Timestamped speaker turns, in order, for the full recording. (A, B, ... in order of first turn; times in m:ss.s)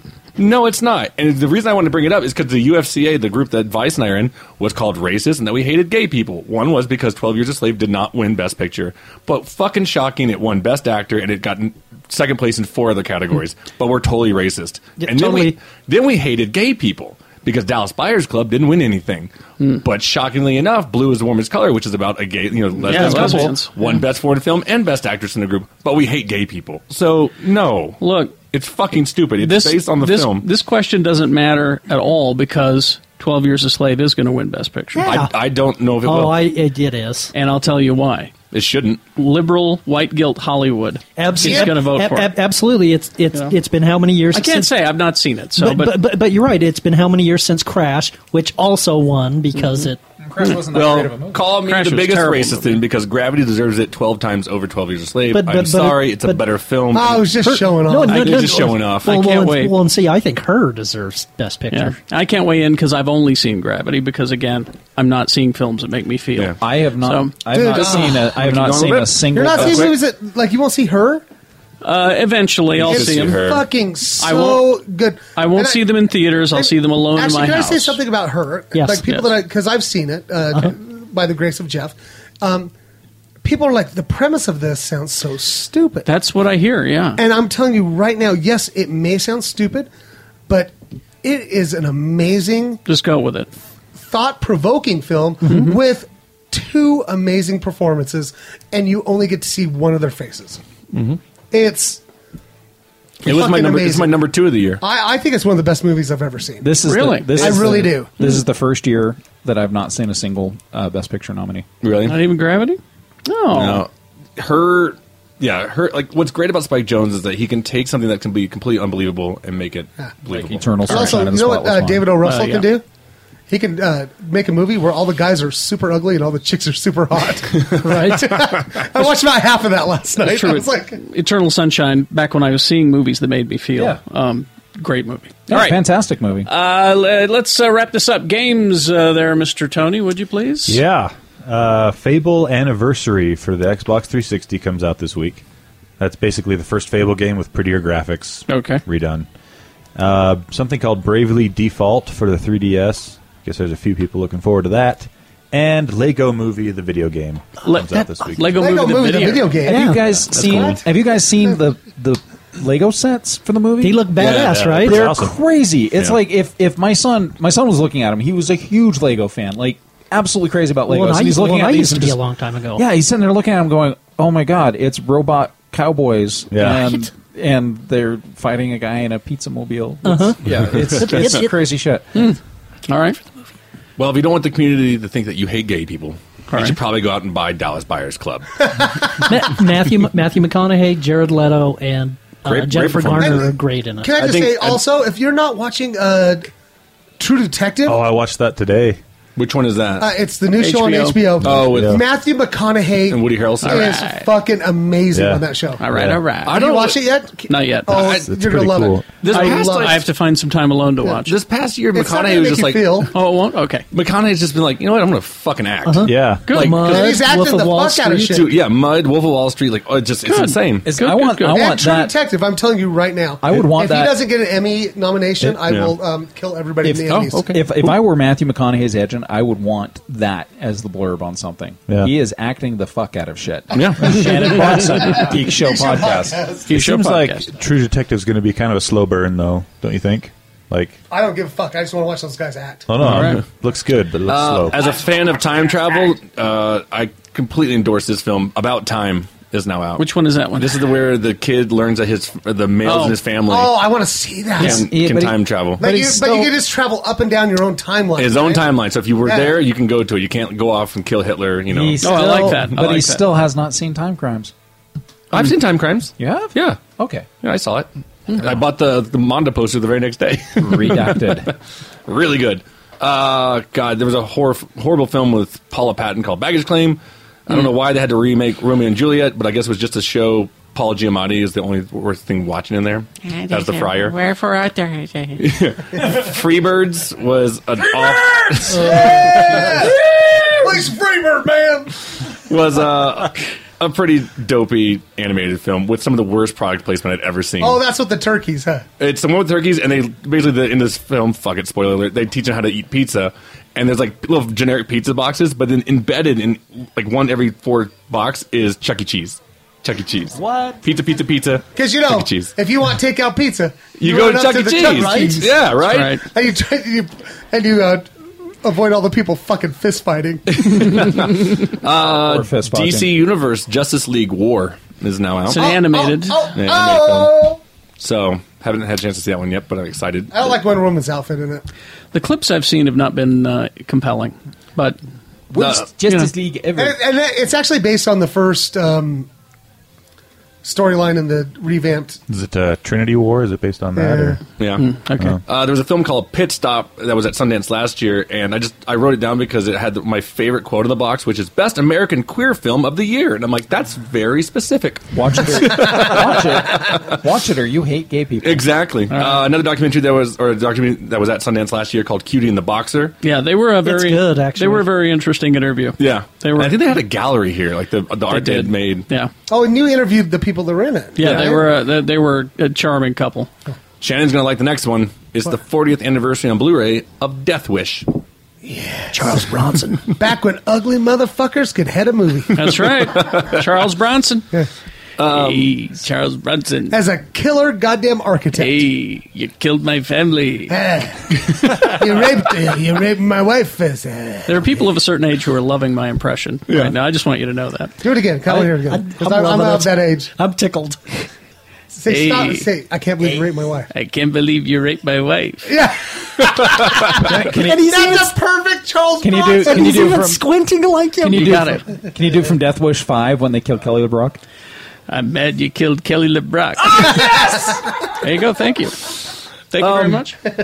0:00.4-0:19.3 A
0:15.0-0:15.5 B
0:19.8-0:30.5 A
0:22.8-0:23.8 C
0:22.9-0:23.4 D
0:28.0-0:28.4 C
0:29.4-0:35.1 C
0:34.9-0:35.3 B
0:35.0-0:36.4 A
0:36.0-0:37.3 B
0:37.3-0:38.3 C
0:38.5-0:39.0 A
0:39.1-0:42.3 C
0:41.2-0:44.8 B
0:41.4-0:41.7 E
0:44.3-0:45.9 C
0:45.6-0:50.0 B
0:50.2-0:51.4 D
0:50.7-0:57.3 A
0:51.6-0:52.7 C
0:55.3-0:56.4 B
0:56.9-0:58.5 E
0:57.4-1:02.0 B
0:58.1-0:59.1 A
0:58.1-0:59.8 C
1:01.7-1:08.0 C
1:06.6-1:09.9 D
1:07.5-1:08.4 E
1:08.3-1:09.9 A
1:09.3-1:11.2 E
1:11.8-1:13.6 C
1:12.7-1:13.6 A
1:12.9-1:22.7 E
1:14.2-1:14.8 C
1:15.3-1:18.0 C
1:18.7-1:19.0 B
1:23.4-1:26.1 E
1:26.0-1:27.2 C
1:27.2-1:29.9 E
1:31.2-1:32.8 E
1:32.8-1:33.5 C
1:34.0-1:40.6 E
1:35.4-1:35.8 C
1:40.9-1:41.2 A
1:41.5-1:42.0 E
1:43.2-1:44.2 E
1:43.2-1:44.8 A
1:44.8-1:48.1 E
1:46.6-1:51.6 D
1:46.8-1:48.3 C
1:51.8-1:52.2 A
1:52.0-1:53.8 C
1:53.5-2:01.3 A
2:00.3-2:02.2 D
2:00.8-2:02.8 E
2:02.2-2:02.7 C
2:03.5-2:11.0 E
2:07.5-2:08.0 A
2:07.8-2:08.3 B
2:10.2-2:15.8 C
2:15.5-2:16.5 D
2:16.4-2:20.8 C
2:20.6-2:25.4 F
2:26.0-2:29.3 F
2:28.5-2:28.8 C
2:29.9-2:38.5 F
2:37.6-2:39.6 C
2:38.5-2:40.8 E
2:39.6-2:40.1 B
2:39.6-2:44.2 D
2:43.8-2:45.0 B
2:44.2-2:45.4 F
2:44.2-2:44.5 A
2:44.8-2:52.2 D
2:50.8-2:52.8 B
2:52.8-3:02.3 D
2:56.5-2:56.9 F
3:00.0-3:01.6 B
3:00.6-3:01.4 A
3:02.1-3:03.2 C
3:04.0-3:08.5 A
3:06.5-3:06.8 C
3:09.2-3:14.2 B
3:12.4-3:13.5 A
3:13.2-3:16.5 E
3:14.2-3:14.8 A
3:17.2-3:18.0 E
3:17.8-3:19.0 F
3:19.4-3:20.1 A
3:20.0-3:25.8 E
3:20.6-3:21.4 C
3:21.4-3:22.0 A
3:21.4-3:22.0 F
3:23.1-3:24.0 A
3:23.6-3:24.3 C
3:25.1-3:26.2 F
3:25.8-3:26.6 C
3:26.4-3:30.0 E
3:26.4-3:27.0 A
3:27.5-3:28.1 C
3:27.9-3:28.2 A
3:28.0-3:29.2 F
3:29.2-3:31.4 C
3:29.2-3:30.0 A
3:31.2-3:33.1 A
3:31.9-3:33.1 E
3:33.1-3:33.8 C
3:33.9-3:37.1 A
3:35.8-3:38.4 B
3:36.0-3:36.5 F
3:36.5-3:36.8 C
3:36.8-3:38.5 E
3:38.3-3:40.9 A
3:40.2-3:41.6 C
3:40.8-3:42.1 D
3:41.5-3:47.5 E
3:43.4-3:44.2 D
3:45.6-3:45.9 A
3:46.8-3:56.5 D
3:47.1-3:48.0 A
3:53.7-3:54.9 A
3:54.4-3:56.8 E
3:56.7-3:57.5 C
3:56.7-4:01.0 F
4:01.1-4:02.9 E
4:02.9-4:04.8 F
4:03.0-4:03.4 C
4:03.0-4:03.4 A
4:04.2-4:13.8 A
4:10.0-4:10.8 C
4:12.8-4:13.2 C
4:13.4-4:14.9 E
4:14.6-4:15.8 A
4:14.6-4:16.5 D
4:15.8-4:19.6 E
4:18.2-4:22.9 A
4:21.7-4:24.5 D
4:22.0-4:23.2 C
4:25.3-4:26.8 A
4:26.2-4:27.2 D
4:27.4-4:31.4 A
4:30.6-4:31.5 D
4:32.0-4:44.2 A
4:43.2-4:45.4 G
4:45.4-4:49.8 A
4:47.8-4:50.9 D
4:48.7-4:50.0 E
4:50.6-4:51.9 E
4:52.4-4:57.8 A
4:57.6-4:58.8 E
4:59.0-5:12.5 A
5:10.5-5:10.7 B
5:11.8-5:15.5 E
5:14.0-5:16.2 A
5:14.8-5:15.5 B
5:15.8-5:16.2 C
5:16.2-5:18.1 E
5:18.6-5:21.1 E
5:20.5-5:25.8 A
5:22.1-5:23.1 D
5:25.4-5:26.5 C
5:25.5-5:27.6 E
5:26.5-5:27.4 A
5:28.0-5:30.6 A
5:30.3-5:31.6 E
5:32.1-5:35.0 C
5:35.5-5:37.0 D
5:35.6-5:35.8 A
5:36.0-5:36.3 C
5:36.8-5:39.3 E
5:40.6-5:42.2 E
5:42.3-5:44.4 F
5:44.0-5:44.4 E
5:44.6-5:57.2 A
5:44.8-5:45.4 C
5:55.1-5:58.7 D
5:58.4-6:03.2 A
5:59.1-5:59.4 C
6:03.2-6:06.8 C
6:03.8-6:04.9 B
6:06.0-6:09.0 A
6:08.3-6:09.3 C
6:09.5-6:11.7 E
6:11.2-6:13.5 C
6:11.2-6:11.5 A
6:14.0-6:18.1 A
6:18.6-6:19.5 E
6:19.1-6:20.1 B
6:20.1-6:22.9 E
6:22.5-6:24.5 C
6:23.2-6:23.6 A
6:25.2-6:25.8 A
6:25.3-6:27.0 C
6:26.9-6:28.9 E
6:28.5-6:30.7 C
6:30.7-6:34.7 E
6:34.5-6:37.9 C
6:36.7-6:36.9 A
6:38.0-6:40.3 E
6:38.5-6:41.3 B
6:41.9-6:43.9 E
6:42.1-6:42.7 C
6:43.9-6:45.7 C
6:45.7-6:50.2 E
6:47.2-6:48.3 B
6:47.4-6:47.9 D
6:49.2-6:50.4 D
6:49.4-6:51.8 B
6:51.2-6:54.4 D
6:51.2-6:51.8 C
6:55.1-6:57.4 C
6:57.0-6:57.6 D
6:58.2-6:59.1 C
6:59.7-7:00.4 C
6:59.8-7:00.3 A